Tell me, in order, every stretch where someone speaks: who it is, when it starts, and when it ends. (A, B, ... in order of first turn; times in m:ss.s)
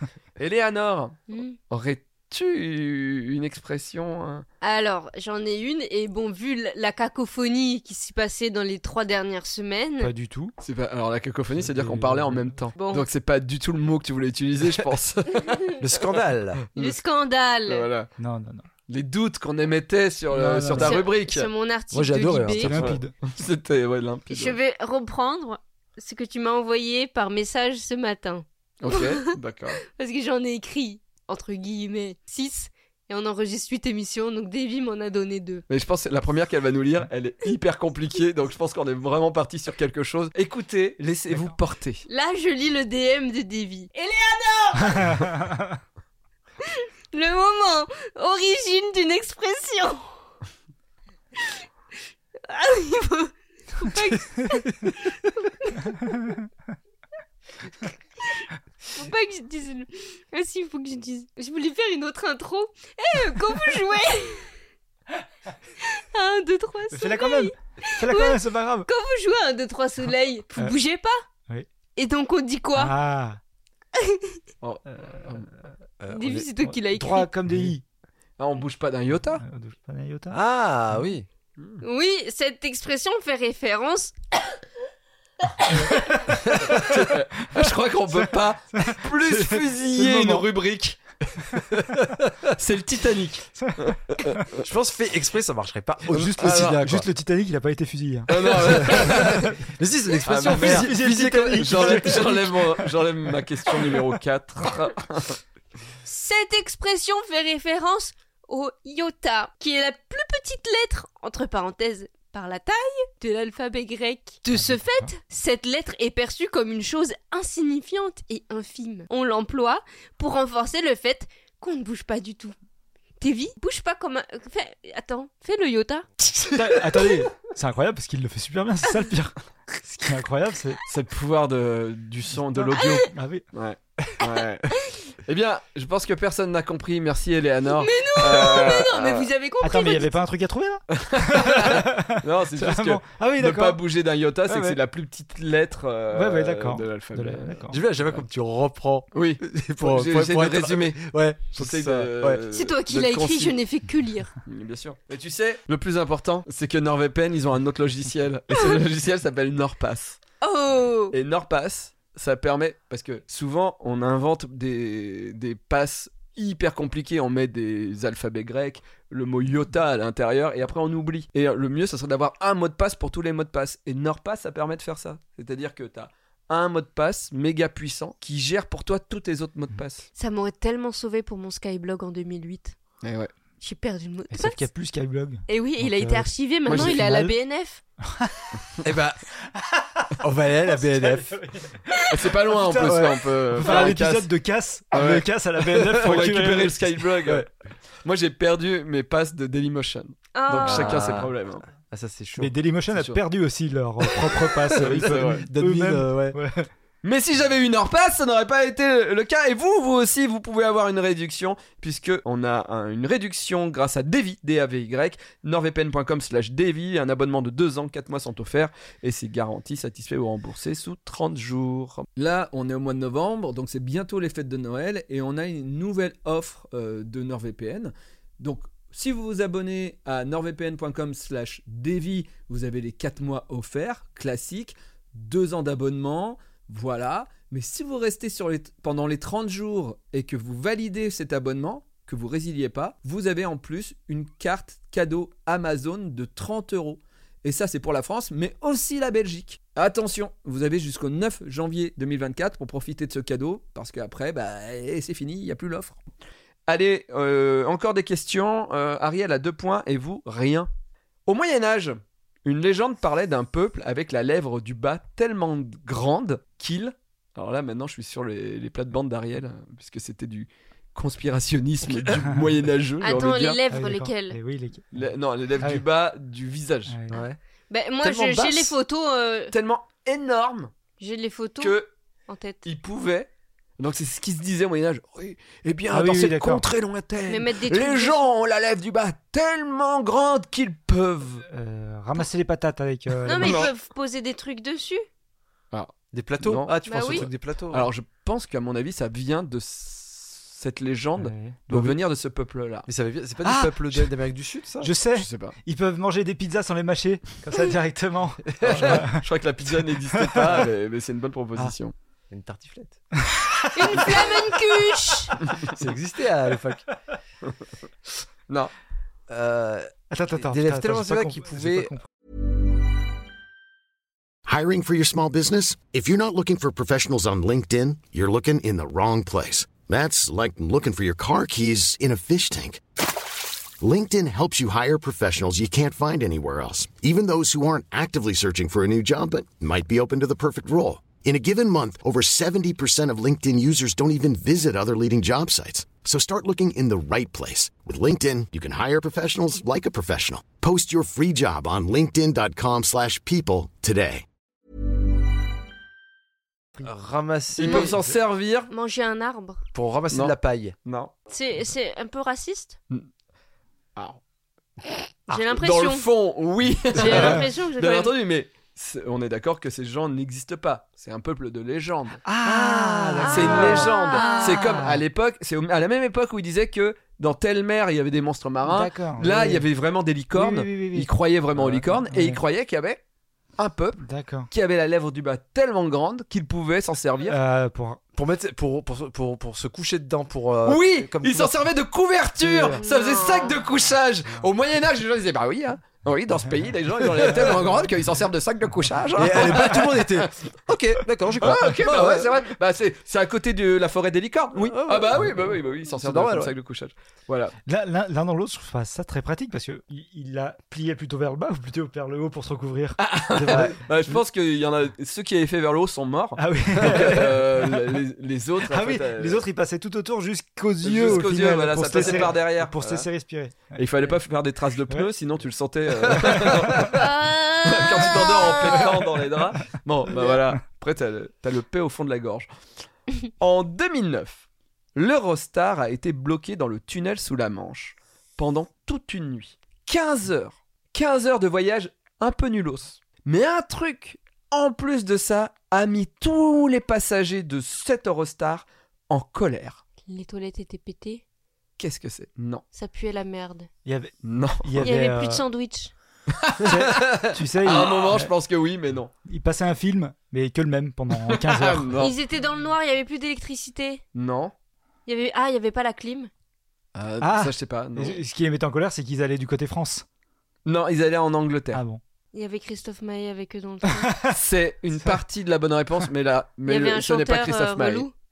0:00.4-0:04.4 A
0:01.3-0:01.6 B
0:04.6-0:10.1 B
0:10.0-0:10.5 C
0:10.6-0:15.6 A
0:11.6-0:12.6 C
0:12.8-0:13.1 B
0:15.4-0:15.7 B
0:15.8-0:16.6 D
0:16.8-0:17.0 A
0:16.8-0:17.9 B
0:17.7-0:18.1 A
0:18.2-0:18.7 C
0:18.9-0:21.5 A
0:20.3-0:21.0 C
0:20.8-0:22.9 B
0:21.9-0:22.9 D
0:22.5-0:23.1 C
0:22.8-0:24.6 A
0:24.3-0:35.6 B
0:28.8-0:29.8 A
0:35.7-0:42.0 A
0:42.1-0:45.2 B
0:44.8-0:45.8 C
0:46.6-0:50.1 B
0:52.5-0:56.4 B
0:56.1-0:56.3 C
0:58.3-1:04.5 B
1:05.8-1:11.2 B
1:06.9-1:08.9 C
1:12.0-1:12.9 B
1:12.8-1:13.4 C
1:14.0-1:14.4 B
1:14.6-1:15.5 A
1:14.9-1:15.3 C
1:16.0-1:16.5 D
1:16.1-1:17.3 B
1:16.6-1:17.8 C
1:18.4-1:19.4 A
1:19.4-1:20.4 C
1:20.3-1:21.3 D
1:21.8-1:24.1 B
1:26.7-1:31.6 A
1:28.7-1:30.4 C
1:31.8-1:32.5 D
1:32.5-1:34.6 A
1:33.6-1:34.5 C
1:34.6-1:37.1 D
1:36.1-1:39.5 C
1:36.4-1:36.7 A
1:38.3-1:39.6 A
1:38.4-1:42.5 D
1:40.2-1:45.4 A
1:40.4-1:42.7 C
1:46.0-2:02.6 B
1:54.5-1:55.1 C
2:03.2-2:06.1 B
2:06.5-2:10.8 C
2:10.9-2:14.7 A
2:12.4-2:13.4 C
2:12.8-2:13.1 B
2:14.7-2:15.0 B
2:15.3-2:19.3 A
2:17.7-2:20.2 B
2:19.6-2:23.8 C
2:20.9-2:28.2 A
2:24.5-2:24.8 C
2:26.1-2:27.8 C
2:27.7-2:32.4 D
2:29.1-2:33.6 A
2:32.5-2:34.3 B
2:34.5-2:40.2 A
2:40.4-2:41.2 B
2:41.1-3:00.1 A
3:00.2-3:02.8 B
3:03.0-3:03.3 A
3:03.6-3:04.7 B
3:04.3-3:07.4 C
3:05.5-3:07.8 B
3:06.7-3:07.0 A
3:08.1-3:08.6 C
3:08.8-3:09.2 D
3:09.6-3:10.2 C
3:10.2-3:11.4 D
3:10.9-3:16.8 C
3:12.1-3:14.3 A
3:12.8-3:13.2 D
3:14.9-3:17.5 A
3:18.0-3:21.6 A
3:20.3-3:21.2 B
3:20.6-3:22.6 D
3:22.4-3:26.7 C
3:22.9-3:23.2 A
3:24.8-3:26.4 D
3:24.8-3:25.4 A
3:27.0-4:16.0 A
4:16.7-4:20.7 A
4:21.3-4:33.6 A
4:33.0-4:34.4 B
4:33.7-4:35.8 C
4:34.9-4:37.0 A
4:36.9-4:37.2 C
4:37.1-4:37.4 D
4:37.7-4:39.5 B
4:38.0-4:38.7 A
4:39.5-4:40.7 A
4:41.0-4:41.8 B
4:41.6-4:41.9 A
4:42.3-4:42.6 B
4:42.6-4:43.3 A
4:43.8-4:51.4 A
4:45.9-4:46.7 C
4:47.3-4:48.2 B
4:51.5-4:53.7 C
4:53.2-4:55.0 B
4:53.4-4:53.7 A
4:55.7-5:02.9 A
4:56.1-4:57.9 D
4:56.8-4:57.3 B
5:01.2-5:01.6 C
5:01.7-5:02.0 D
5:02.9-5:04.9 D
5:03.4-5:04.1 C
5:04.8-5:09.2 C
5:05.2-5:05.6 A
5:08.5-5:09.0 D
5:08.6-5:11.9 A
5:10.1-5:10.6 C
5:12.3-5:13.0 D
5:13.3-5:14.2 C
5:13.8-5:15.4 B
5:15.7-5:16.9 D
5:19.3-5:21.9 D
5:20.1-5:22.1 C
5:24.5-5:32.8 E
5:33.8-5:54.2 E
5:56.8-5:58.1 D
5:57.6-5:58.7 A
5:57.6-5:57.9 B
5:58.7-5:59.6 B
5:59.8-6:00.8 D
6:00.1-6:01.1 A
6:01.3-6:02.8 B
6:05.3-6:06.1 B
6:05.5-6:12.2 A
6:06.9-6:08.2 B
6:12.2-6:15.0 C
6:12.4-6:13.9 D
6:13.2-6:14.9 B
6:13.3-6:23.0 A
6:18.6-6:19.6 C
6:20.3-6:21.1 C
6:21.6-6:21.9 D
6:22.1-6:22.4 C
6:23.6-6:27.4 A
6:24.0-6:24.5 C
6:27.3-6:28.0 C
6:28.2-6:31.6 D
6:30.6-6:40.3 A
6:32.4-6:32.8 C
6:32.8-6:33.6 B
6:37.2-6:37.5 D
6:39.2-6:42.4 D
6:41.4-6:47.5 A
6:44.6-6:46.6 D
6:47.7-6:53.8 C
6:53.0-6:59.4 A
6:53.5-6:54.2 D
6:56.4-6:57.8 C
6:58.7-7:04.2 C
7:00.8-7:03.1 A
7:03.8-7:07.1 A
7:06.2-7:07.0 C
7:06.9-7:08.9 B
7:07.6-7:12.5 A
7:13.4-7:14.4 A
7:15.0-7:29.8 A
7:30.1-7:31.2 B
7:31.8-7:32.6 A
7:32.7-7:33.7 B
7:33.8-7:35.4 C
7:34.2-7:34.9 A
7:34.8-7:35.9 B
7:36.4-7:39.1 A
7:36.6-7:38.3 C
7:39.2-7:42.0 C
7:41.3-7:42.1 A
7:42.0-7:44.0 B
7:44.2-7:44.5 A
7:45.1-7:46.3 B
7:47.0-7:48.2 A
7:47.2-7:50.0 C
7:50.7-7:51.8 A
7:51.7-7:52.0 C
7:52.3-7:54.3 B
7:53.9-7:54.3 C
7:54.3-7:58.1 A
7:56.7-7:58.1 B